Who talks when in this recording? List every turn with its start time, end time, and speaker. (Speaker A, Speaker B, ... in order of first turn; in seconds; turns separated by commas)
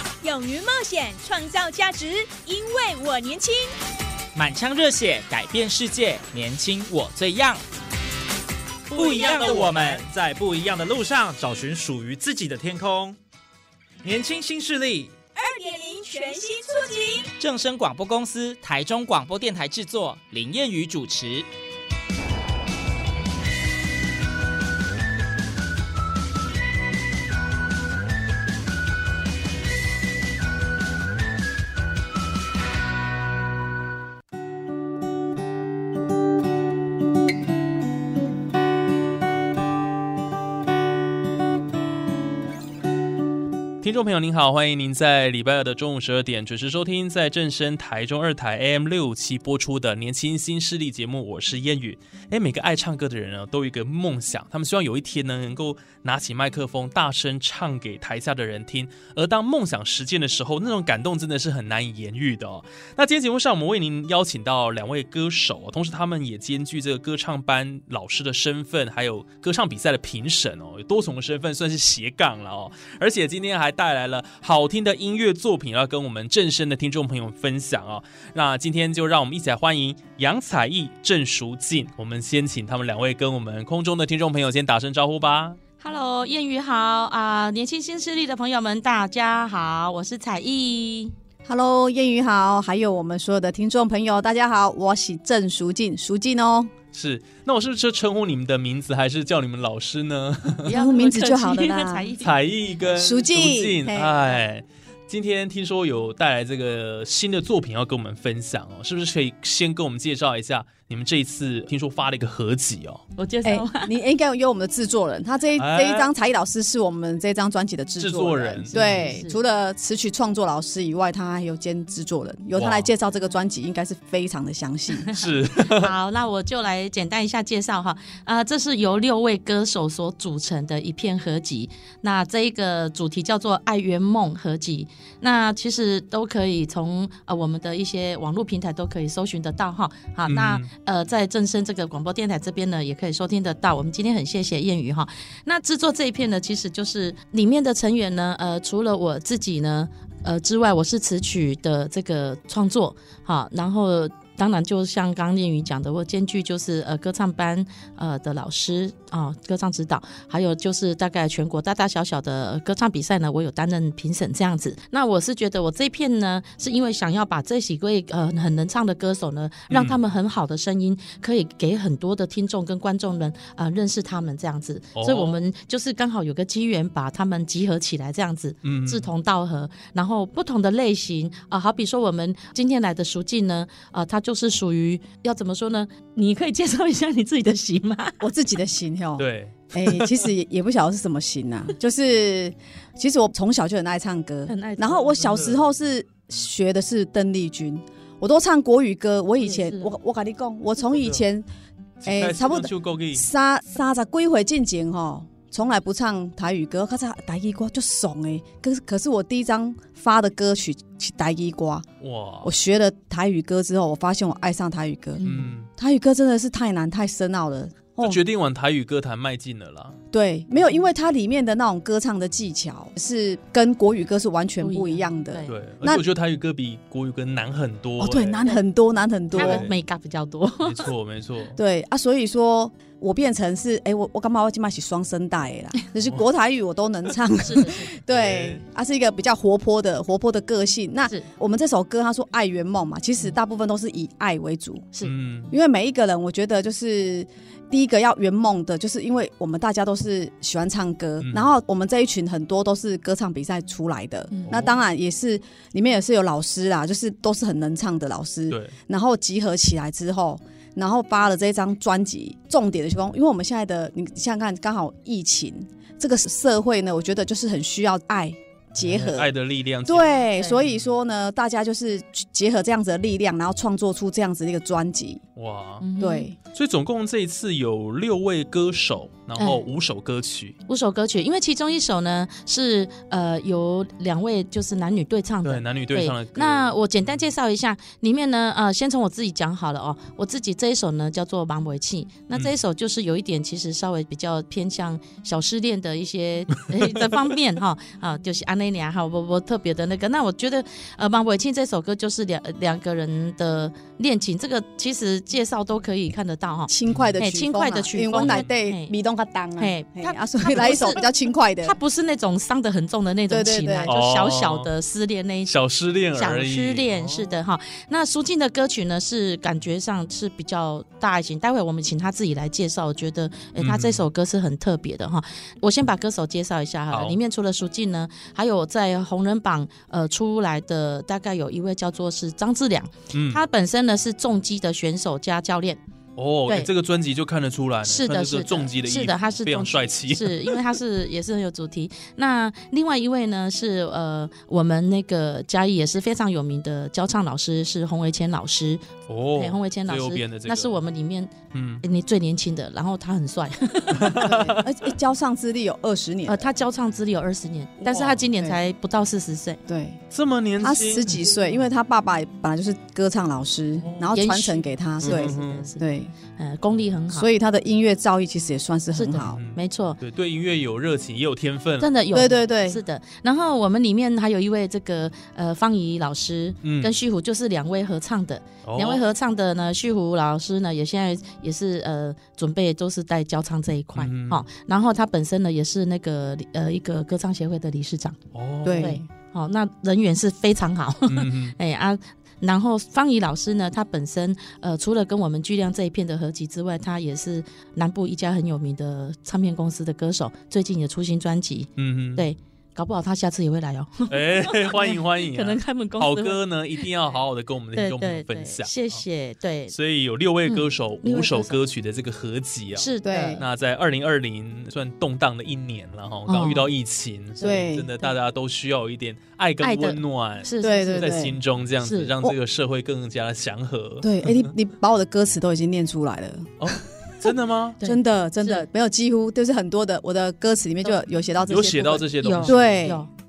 Speaker A: 0.2-3.7, Speaker B: 4.3-7.6, Speaker C: 8.9-13.2, Speaker B: 8.9-10.1, Speaker C: 14.0-15.1, Speaker A: 15.3-17.3, Speaker B: 17.4-21.5, Speaker D: 43.8-85.6, Speaker E: 85.8-91.1, Speaker F: 91.4-96.7, Speaker D: 96.9-100.7, Speaker F: 100.6-102.1, Speaker E: 100.7-102.3, Speaker D: 102.2-113.0, Speaker F: 102.9-104.4, Speaker E: 113.2-113.9, Speaker F: 113.4-125.1, Speaker D: 115.5-116.1, Speaker D: 118.0-119.0, Speaker E: 118.7-119.4, Speaker D: 122.5-122.9, Speaker D: 125.1-125.9, Speaker E: 125.6-188.2, Speaker D: 140.3-140.7, Speaker D: 169.7-170.0, Speaker D: 174.9-175.4, Speaker D: 178.6-179.1, Speaker F: 188.2-201.4, Speaker D: 189.2-190.1, Speaker E: 194.5-195.4, Speaker D: 195.2-195.6, Speaker E: 199.4-199.9, Speaker D: 202.0-203.3, Speaker F: 202.0-211.9, Speaker D: 212.0-212.5, Speaker F: 212.4-215.2, Speaker E: 215.2-215.6, Speaker D: 215.2-215.7, Speaker F: 215.8-218.2, Speaker D: 218.0-220.0, Speaker F: 220.1-226.0, Speaker E: 224.6-225.5, Speaker D: 225.5-228.4, Speaker F: 228.0-229.7, Speaker D: 229.3-229.7, Speaker E: 229.3-230.8, Speaker D: 230.6-231.6, Speaker F: 231.6-244.9, Speaker E: 237.4-237.9, Speaker D: 238.1-238.6, Speaker D: 245.0-245.5, Speaker F: 245.5-269.3, Speaker D: 251.2-251.5, Speaker E: 254.3-254.6, Speaker D: 254.5-254.7, Speaker D: 258.5-258.8, Speaker D: 268.8-270.9, Speaker F: 269.9-275.2, Speaker D: 275.4-275.9, Speaker E: 275.8-276.3, Speaker F: 276.0-276.4, Speaker D: 276.5-280.6, Speaker E: 279.4-279.6, Speaker E: 280.7-308.9, Speaker D: 285.4-287.2, Speaker F: 306.7-311.8, Speaker D: 308.2-308.5, Speaker E: 309.6-311.0, Speaker E: 311.6-315.5, Speaker F: 313.3-313.9, Speaker D: 313.9-314.7, Speaker D: 315.5-317.3, Speaker E: 316.1-335.8, Speaker D: 323.6-324.0, Speaker D: 326.9-327.2, Speaker D: 333.1-333.4, Speaker D: 336.2-340.6, Speaker E: 337.9-348.8, Speaker D: 349.1-350.8, Speaker E: 349.4-354.2, Speaker D: 351.5-351.8, Speaker D: 353.9-354.6, Speaker F: 354.1-356.5, Speaker E: 356.3-359.6, Speaker D: 357.8-358.2, Speaker F: 359.7-360.0, Speaker D: 360.1-361.2, Speaker F: 360.6-366.1, Speaker D: 363.8-364.1, Speaker E: 364.1-365.8, Speaker D: 365.0-365.7, Speaker E: 366.4-367.3, Speaker F: 367.1-369.4, Speaker E: 368.9-370.0, Speaker D: 369.2-371.9, Speaker E: 371.8-388.2, Speaker F: 372.1-372.8, Speaker D: 376.6-376.9, Speaker D: 378.6-379.0, Speaker D: 383.9-384.4, Speaker D: 388.3-389.0, Speaker F: 388.6-389.0, Speaker E: 388.8-406.4, Speaker D: 391.1-391.6, Speaker D: 401.8-402.2, Speaker D: 404.1-409.0, Speaker E: 407.7-409.8, Speaker D: 409.7-424.5, Speaker E: 410.5-411.6, Speaker E: 412.8-413.4, Speaker F: 413.0-413.4, Speaker E: 416.3-416.7, Speaker F: 417.4-417.9, Speaker E: 417.4-418.1, Speaker E: 419.6-421.1, Speaker F: 420.6-421.4, Speaker E: 421.8-422.1, Speaker F: 424.0-426.6, Speaker D: 426.6-427.8, Speaker E: 427.8-428.6, Speaker F: 427.8-433.0, Speaker D: 431.5-432.9, Speaker E: 432.2-433.1